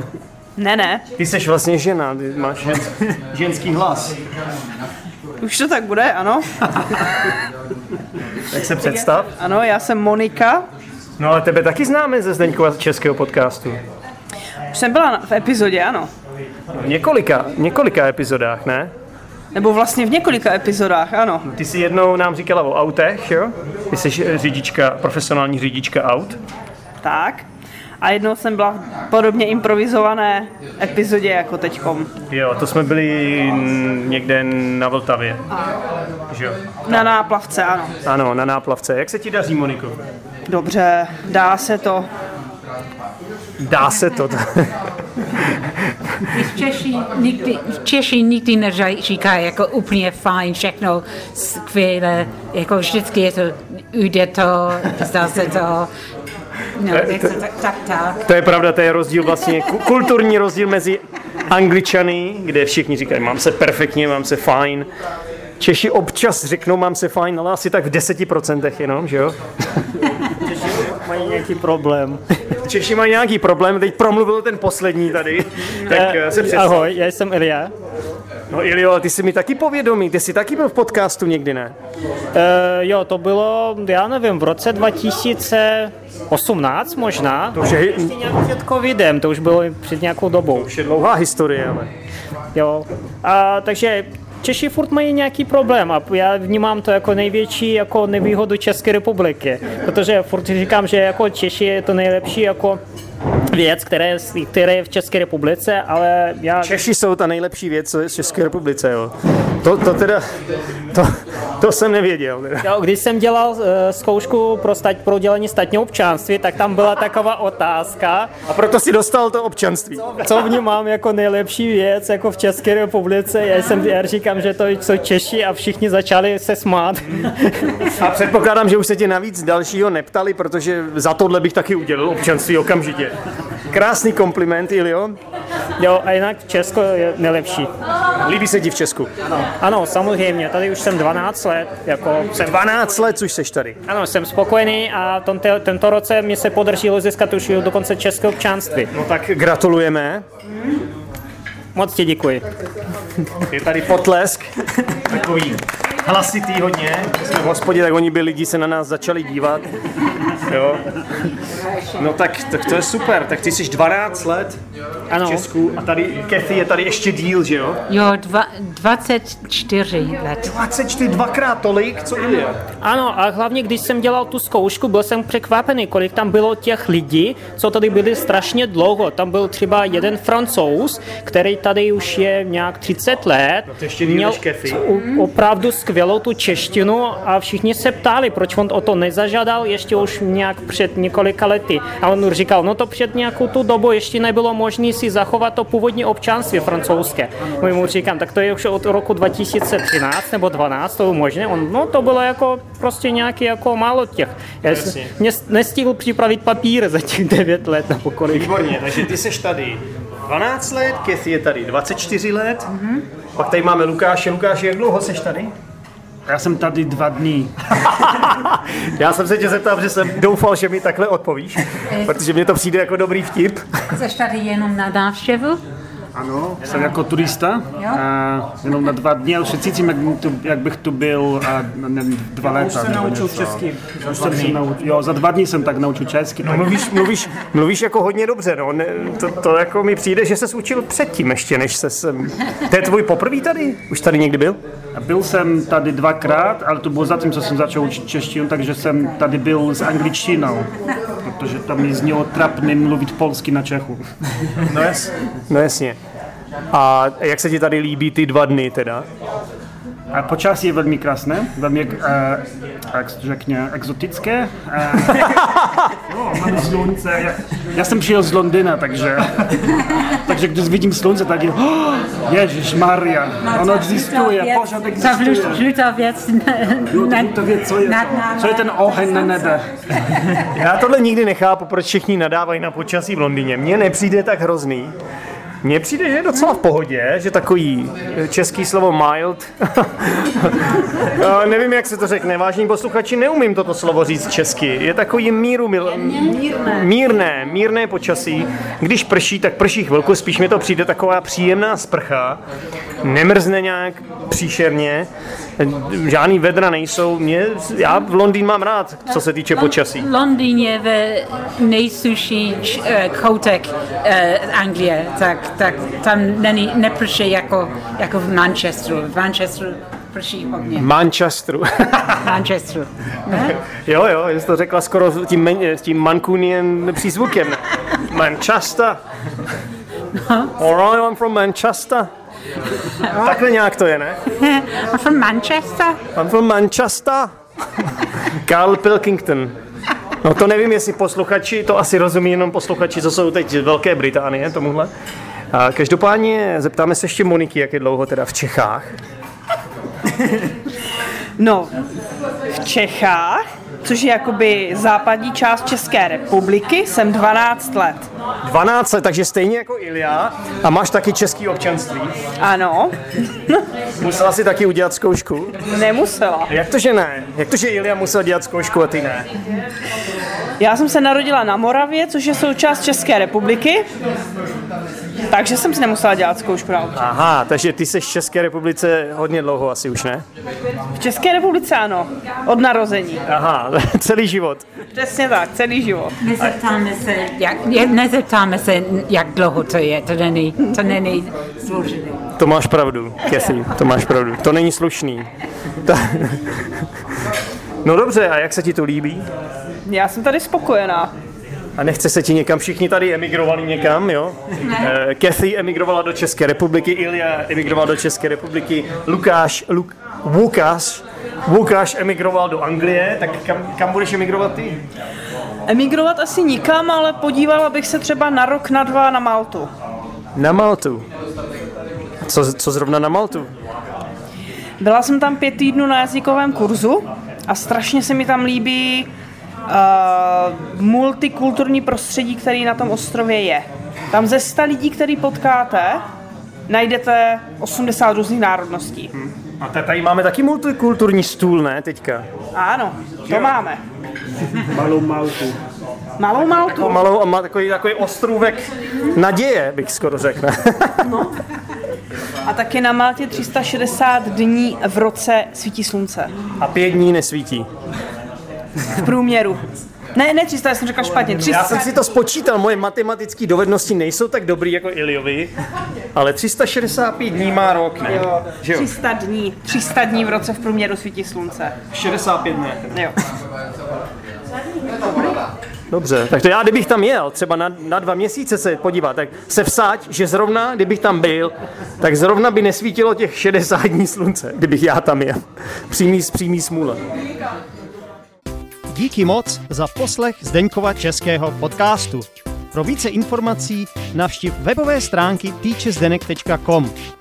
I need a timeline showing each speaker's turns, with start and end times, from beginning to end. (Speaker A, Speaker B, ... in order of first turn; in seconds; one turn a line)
Speaker A: 0.6-1.0
Speaker B: 1.2-4.2
Speaker A: 5.4-6.5
Speaker B: 8.5-9.3
Speaker A: 8.8-10.6
Speaker B: 11.2-13.8
Speaker A: 14.7-16.1
Speaker B: 16.7-18.9
Speaker A: 19.5-21.4
Speaker B: 21.4-26.4
Speaker A: 27.0-27.5
Speaker A: 28.0-32.1
Speaker B: 32.3-35.4
Speaker B: 36.3-37.1
Speaker A: 36.9-37.9
Speaker B: 38.0-40.0
Speaker A: 40.5-42.1
Speaker B: 43.6-44.7
Speaker B: 45.9-46.3
Speaker C: 46.3-55.9
Speaker C: 56.8-58.2
Speaker B: 56.9-57.4
Speaker B: 58.2-64.9
Speaker B: 65.6-69.4
Speaker D: 70.4-72.2
Speaker B: 72.6-76.9
Speaker D: 75.9-77.7
Speaker B: 78.5-81.7
Speaker D: 82.3-90.7
Speaker B: 87.5-88.1
Speaker B: 90.5-91.9
Speaker D: 92.5-102.8
Speaker D: 103.5-106.8
Speaker B: 106.6-110.2
Speaker B: 110.9-112.7
Speaker D: 112.6-118.3
Speaker B: 118.5-120.2
Speaker D: 120.2-127.9
Speaker B: 128.0-133.2
Speaker B: 133.7-135.2
Speaker D: 135.8-137.7
Speaker B: 138.2-139.1
Speaker D: 139.4-143.1
Speaker B: 142.3-143.8
Speaker D: 143.9-148.9
Speaker B: 148.9-150.2
Speaker D: 151.8-152.4
Speaker B: 153.5-159.7
Speaker B: 160.4-160.8
Speaker B: 161.9-164.6
Speaker D: 165.1-165.5
Speaker B: 165.2-167.8
Speaker C: 167.9-170.5
Speaker B: 170.4-172.6
Speaker D: 172.8-208.6
Speaker B: 183.7-184.8
Speaker B: 204.7-205.1
Speaker B: 208.3-212.7
Speaker C: 212.8-213.0
Speaker B: 213.3-215.5
Speaker E: 216.3-217.6
Speaker B: 217.8-223.7
Speaker C: 223.9-225.6
Speaker E: 226.2-236.8
Speaker B: 232.7-233.6
Speaker B: 234.1-234.5
Speaker B: 236.4-244.6
Speaker E: 244.9-250.7
Speaker E: 251.2-254.1
Speaker B: 254.7-256.0
Speaker B: 256.7-259.1
Speaker E: 260.1-265.4
Speaker B: 265.2-265.8
Speaker E: 266.1-275.7
Speaker C: 273.4-279.6
Speaker E: 276.9-279.6
Speaker B: 280.4-284.9
Speaker B: 285.6-302.4
Speaker C: 296.3-296.6
Speaker B: 303.0-310.1
Speaker C: 309.6-320.9
Speaker B: 320.8-322.3
Speaker C: 322.2-323.5
Speaker B: 323.3-329.0
Speaker C: 330.1-330.5
Speaker B: 330.6-332.1
Speaker B: 333.1-334.2
Speaker C: 334.3-336.0
Speaker B: 336.1-337.3
Speaker B: 338.2-339.5
Speaker B: 340.2-344.9
Speaker B: 345.5-348.9
Speaker A: 351.4-351.7
Speaker A: 352.5-358.1
Speaker B: 358.4-362.1
Speaker A: 362.4-363.6
Speaker B: 364.0-365.6
Speaker A: 365.6-366.5
Speaker B: 366.5-369.3
Speaker A: 370.6-373.9
Speaker A: 375.3-377.1
Speaker B: 376.9-380.2
Speaker A: 381.0-383.2
Speaker B: 383.3-384.7
Speaker A: 384.9-386.1
Speaker C: 386.2-392.3
Speaker B: 392.4-395.3
Speaker B: 395.8-396.7
Speaker B: 397.8-399.3
Speaker A: 399.9-401.1
Speaker B: 401.8-414.8
Speaker A: 415.7-419.7
Speaker B: 420.4-421.1
Speaker B: 422.2-423.5
Speaker A: 424.8-429.1
Speaker A: 429.7-436.0
Speaker A: 436.7-439.1
Speaker B: 439.1-442.3
Speaker A: 442.6-443.8
Speaker E: 444.7-445.6
Speaker A: 446.2-447.0
Speaker B: 446.5-451.1
Speaker A: 451.1-451.3
Speaker A: 452.4-456.3
Speaker B: 456.6-457.7
Speaker A: 458.9-459.6
Speaker A: 460.1-461.9
Speaker B: 461.4-465.5
Speaker B: 466.1-468.9
Speaker A: 468.2-471.7
Speaker B: 471.9-473.1
Speaker A: 475.1-475.4
Speaker B: 475.9-487.0
Speaker B: 488.9-496.9